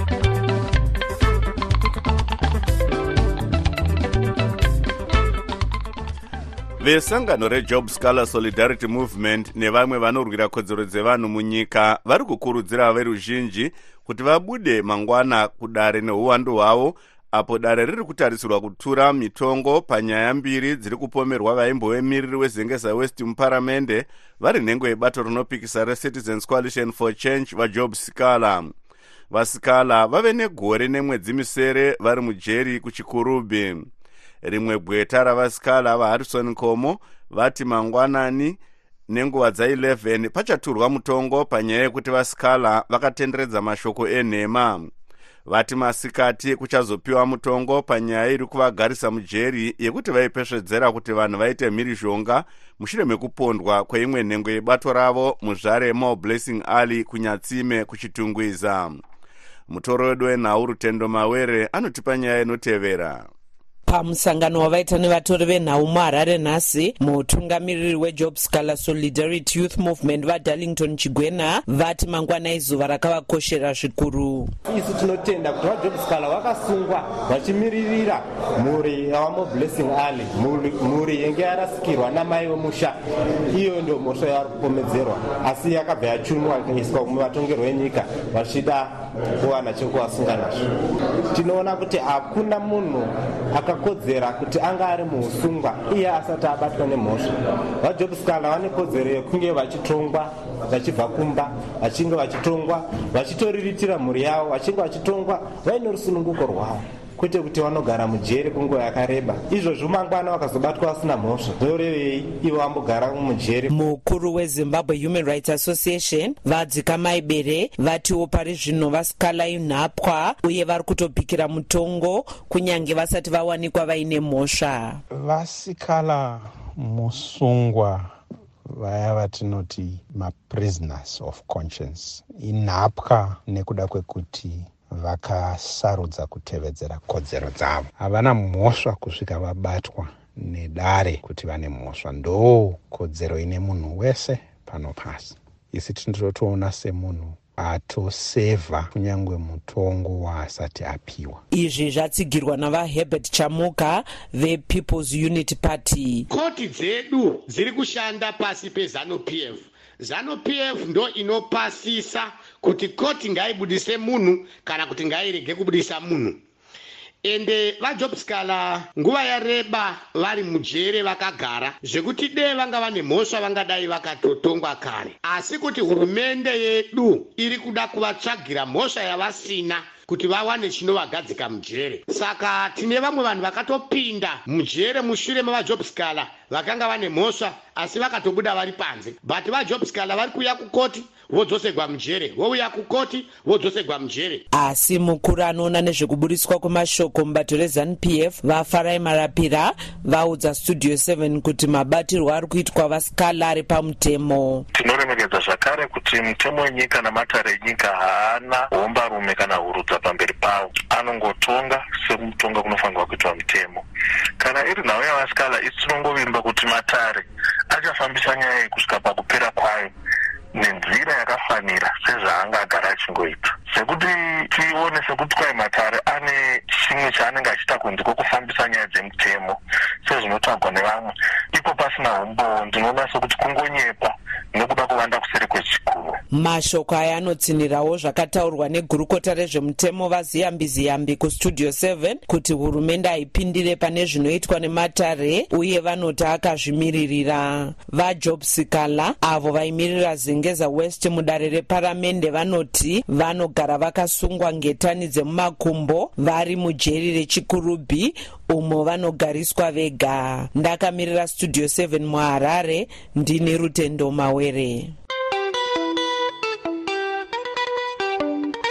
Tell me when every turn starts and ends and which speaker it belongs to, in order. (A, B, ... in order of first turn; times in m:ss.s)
0:06.8-0:28.7 A
0:29.3-0:33.8 A
0:34.4-0:38.6 A
0:39.1-0:44.9 A
0:45.4-0:59.0 A
0:59.7-1:03.3 A
1:03.9-1:14.5 B
1:14.7-1:23.0 C
1:23.5-1:30.6 C
1:31.3-1:53.7 C
1:53.7-2:05.0 B
2:05.1-2:08.2 D
2:08.7-2:31.4 D
2:31.5-2:36.2 B
2:36.3-2:46.4 E
2:47.2-3:14.4 E
3:14.5-3:24.6 B
3:24.7-3:33.8 F
3:34.4-3:39.9 F
3:40.5-3:56.2 F
3:56.3-4:24.9 B